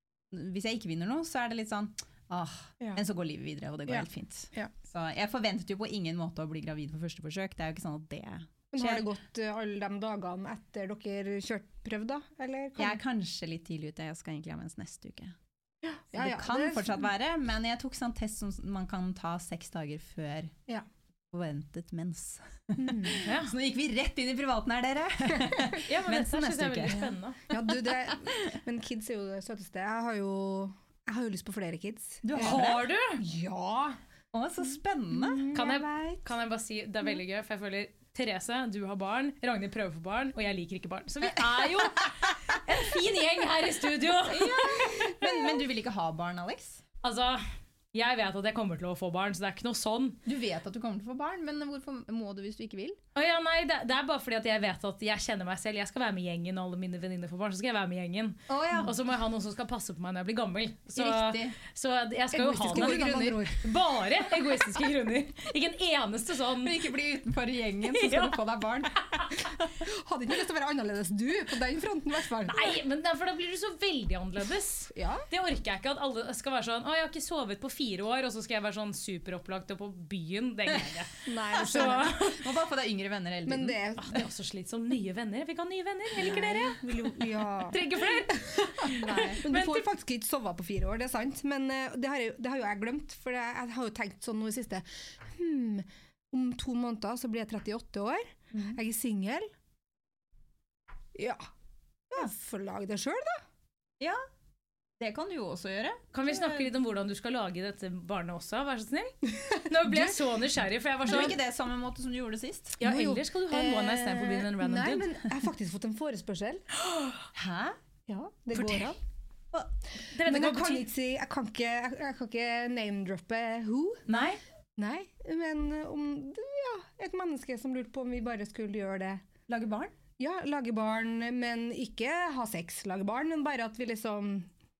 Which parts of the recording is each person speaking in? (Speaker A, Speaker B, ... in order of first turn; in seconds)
Speaker A: 0.3-9.1, 12.8-15.4, 16.1-20.5, 21.3-28.3, 32.2-32.9, 34.3-35.6, 44.3-46.8, 50.2-53.0, 58.5-59.0, 60.9-61.6, 62.7-63.1, 66.6-69.7, 80.7-81.0, 81.5-83.8, 89.0-89.4, 98.5-98.8, 105.0-106.7, 111.0-112.8, 117.3-117.8, 124.1-124.4, 129.5-129.9
Speaker B: 3.9-4.7, 8.7-13.0, 15.8-17.1, 22.8-23.2, 27.5-34.0, 35.1-36.2, 62.3-63.6, 69.8-72.8, 74.9-75.2, 81.2-82.1, 83.5-84.2, 86.2-99.5, 101.1-101.5, 102.1-103.4, 109.6-110.1, 112.8-116.7, 118.1-119.0, 120.2-124.1, 124.8-129.2, 130.2-134.5
Speaker C: 23.2-23.5, 25.9-27.4, 32.4-33.2, 35.5-45.2, 47.0-47.4, 47.9-50.2, 53.1-66.8, 67.9-68.4, 72.5-82.4, 84.0-86.8, 87.7-89.8, 106.1-111.3, 112.8-115.1, 116.8-117.2, 118.5-118.9, 120.1-120.8